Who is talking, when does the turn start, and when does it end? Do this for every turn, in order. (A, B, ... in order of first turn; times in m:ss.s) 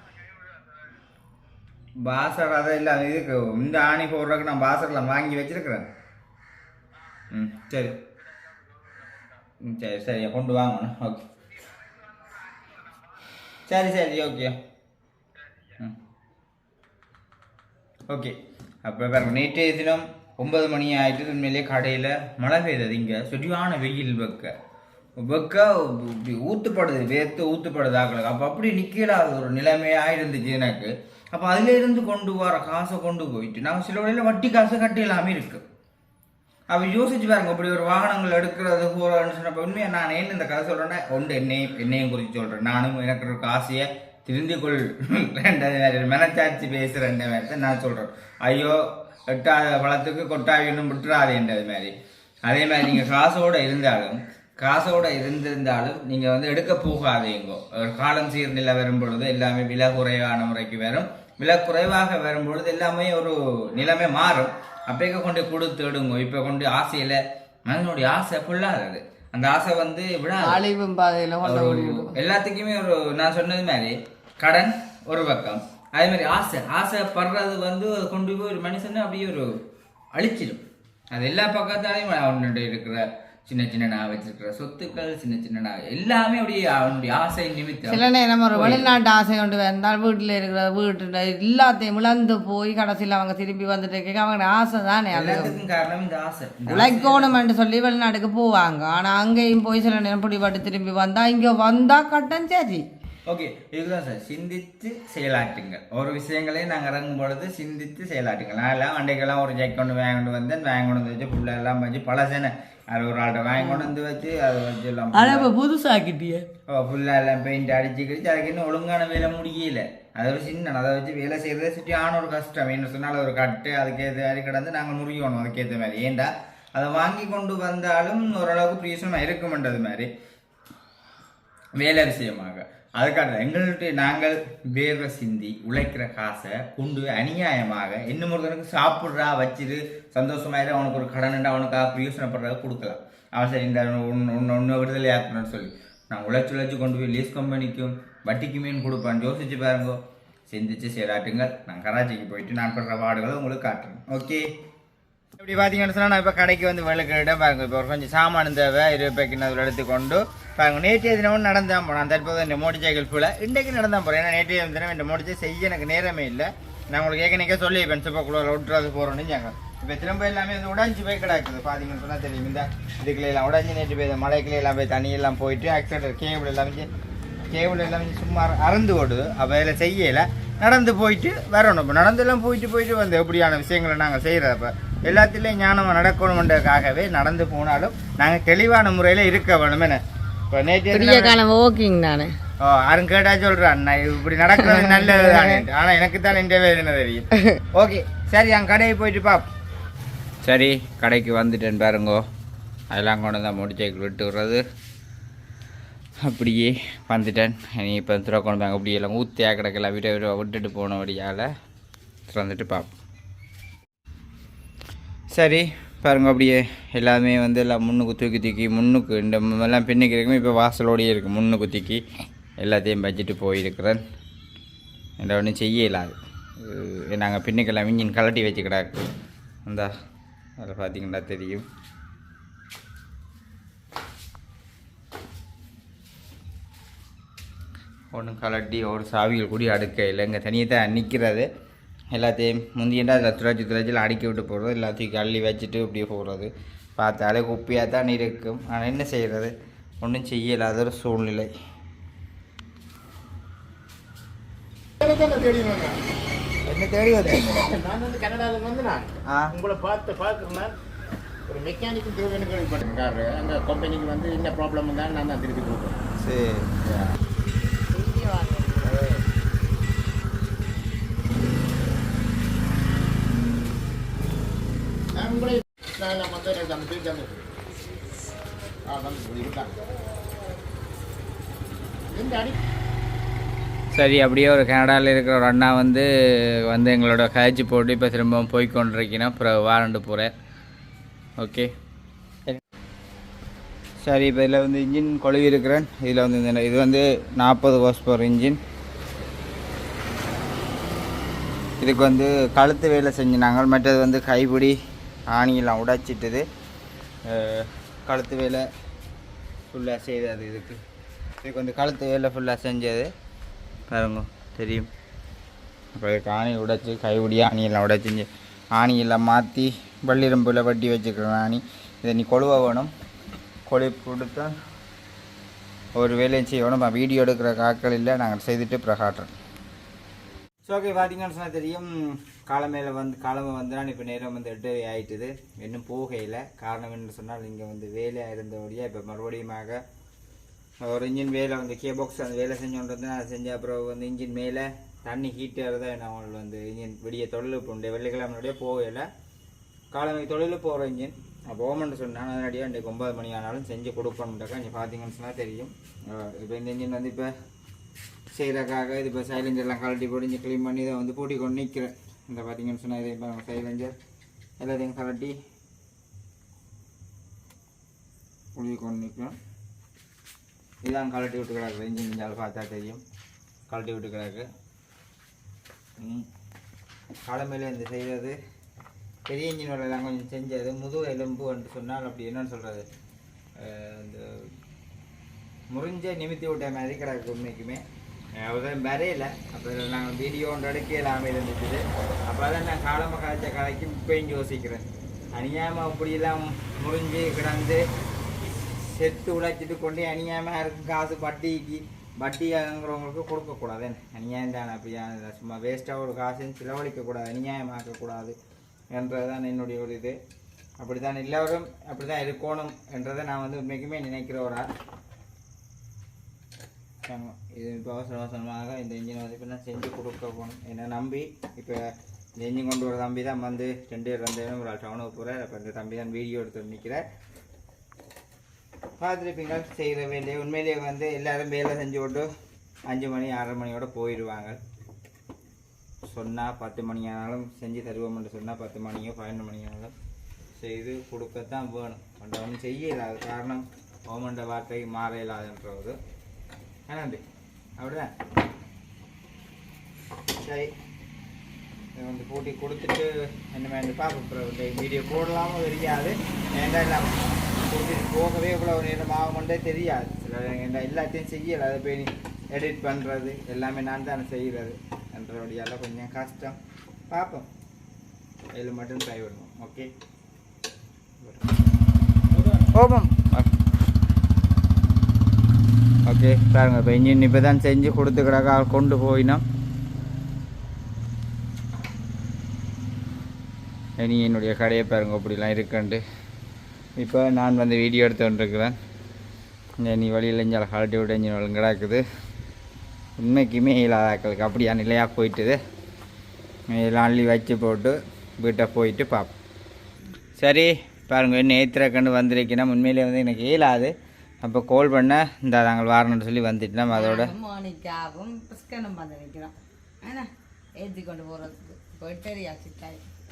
0:02.0-0:05.9 A
0:07.3-0:08.0 A
0:09.6-0:11.2 A
0:13.6-0:14.6 A
0:18.1-0:24.5 A
0:25.2-0:35.6 A
0:36.7-0:51.9 A
0:52.4-1:10.6 A
1:10.4-1:12.2 B
1:11.4-1:19.5 A
1:20.1-1:28.9 A
1:27.9-1:35.6 B
1:35.1-1:37.4 A
1:36.7-1:42.8 B
1:43.3-1:55.5 A
1:53.6-1:53.9 B
1:55.1-1:56.5 B
1:56.7-2:10.1 A
2:11.8-2:34.5 A
2:35.4-2:56.9 A
2:57.5-3:11.4 A
3:10.9-3:12.3 B
3:12.6-3:19.5 A
3:14.7-3:15.5 B
3:20.4-3:22.2 A
3:22.9-3:24.6 A
3:26.2-3:31.5 A
3:32.3-3:32.9 A
3:35.3-3:42.0 A
3:42.6-3:44.0 A
3:45.2-3:49.1 A
3:49.6-3:49.9 A
3:50.6-3:51.6 A
3:58.1-4:01.5 A
4:02.1-4:11.5 A
4:15.0-4:16.0 C
4:16.7-4:17.7 A
4:17.2-4:20.7 C
4:19.3-4:19.5 A
4:21.5-4:26.0 C
4:26.2-4:27.2 A
4:27.9-4:29.0 B
4:28.8-4:29.2 C
4:35.2-4:37.4 C
4:38.8-4:39.8 C
4:42.1-4:42.6 C
4:43.9-4:50.3 A
4:51.4-4:51.7 A
4:54.0-4:58.6 A
5:01.8-5:04.8 A
5:05.3-5:06.4 A
5:07.2-5:08.7 A
5:09.7-5:10.8 A
5:11.4-5:13.1 A
5:13.9-5:14.9 A
5:16.0-5:22.9 A
5:23.7-5:24.6 A
5:26.0-5:29.3 A
5:30.6-5:39.8 A
5:40.8-5:49.1 A
5:49.9-5:57.3 A
5:58.3-6:04.0 A
6:04.6-6:05.4 A
6:08.5-6:09.4 A
6:10.8-6:13.0 A
6:13.7-6:14.5 A
6:16.0-6:16.3 A
6:17.2-6:18.4 A
6:19.2-6:22.9 A
6:23.6-6:24.5 A
6:25.7-6:27.8 A
6:28.4-6:37.8 A
6:38.7-6:48.4 A
6:48.9-6:50.2 A
6:50.8-6:54.7 A
6:57.1-7:01.8 A
7:02.4-7:07.0 A
7:09.0-7:12.3 A
7:12.9-7:14.6 A
7:16.0-7:19.9 A
7:20.6-7:26.0 A
7:26.9-7:27.2 A
7:27.8-7:28.1 A
7:30.4-7:30.7 A
7:32.0-7:46.6 A
7:47.1-7:47.5 A
7:48.5-7:49.9 A
7:51.2-7:51.5 A
7:52.7-7:53.5 A
7:56.0-7:59.4 A
8:04.0-8:06.0 A
8:07.0-8:08.8 A
8:09.8-8:12.0 A
8:13.2-8:15.6 A
8:16.7-8:19.3 A
8:20.4-8:27.3 A
8:26.9-8:33.0 B